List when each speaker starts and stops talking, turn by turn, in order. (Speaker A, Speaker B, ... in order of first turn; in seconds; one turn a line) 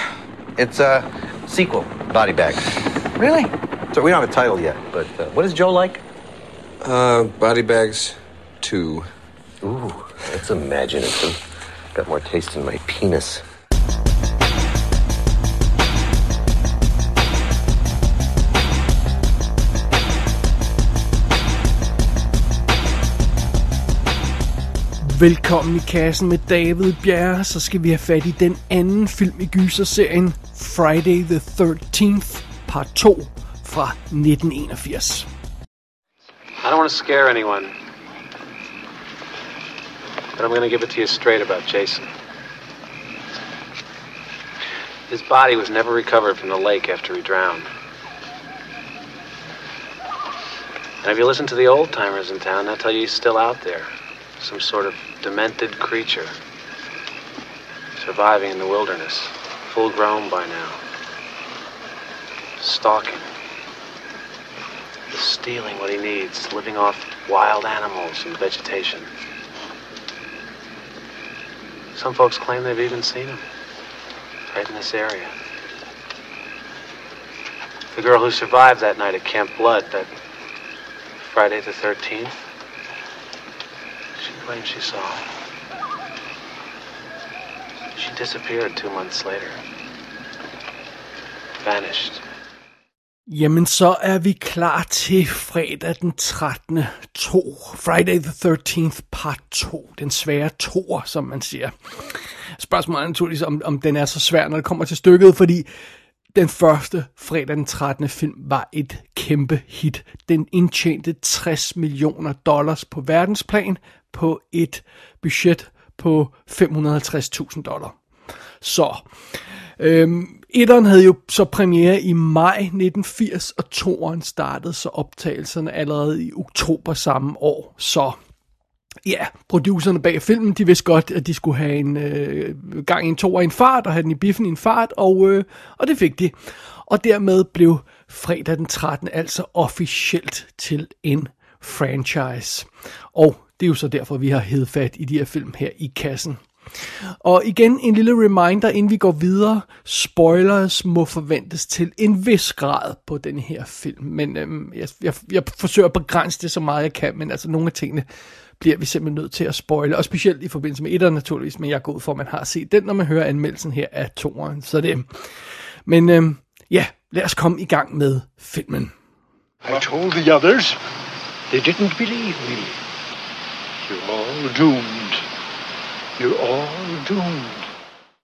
Speaker A: 0.6-2.6
Speaker A: 3.1-6.0
Speaker B: 6.8-9.1
Speaker A: 9.6-11.4
Speaker A: 11.9-13.4
Speaker C: 25.0-35.3
Speaker D: 36.6-37.7
Speaker D: 40.3-42.1
Speaker D: 45.1-47.7
Speaker D: 51.0-56.3
Speaker D: 58.0-60.8
Speaker D: 62.6-63.3
Speaker D: 65.1-69.1
Speaker D: 71.9-73.4
Speaker D: 74.5-75.3
Speaker D: 77.9-80.1
Speaker D: 81.2-82.4
Speaker D: 84.2-85.2
Speaker D: 87.9-89.6
Speaker D: 91.6-92.2
Speaker C: 93.3-105.7
Speaker C: 106.3-118.0
Speaker C: 118.6-119.0
Speaker C: 119.8-128.2
Speaker C: 129.0-158.1
Speaker C: 158.6-165.3
Speaker C: 165.8-168.9
Speaker E: 169.6-170.8
Speaker E: 171.5-172.7
Speaker E: 173.8-175.2
Speaker E: 176.2-177.7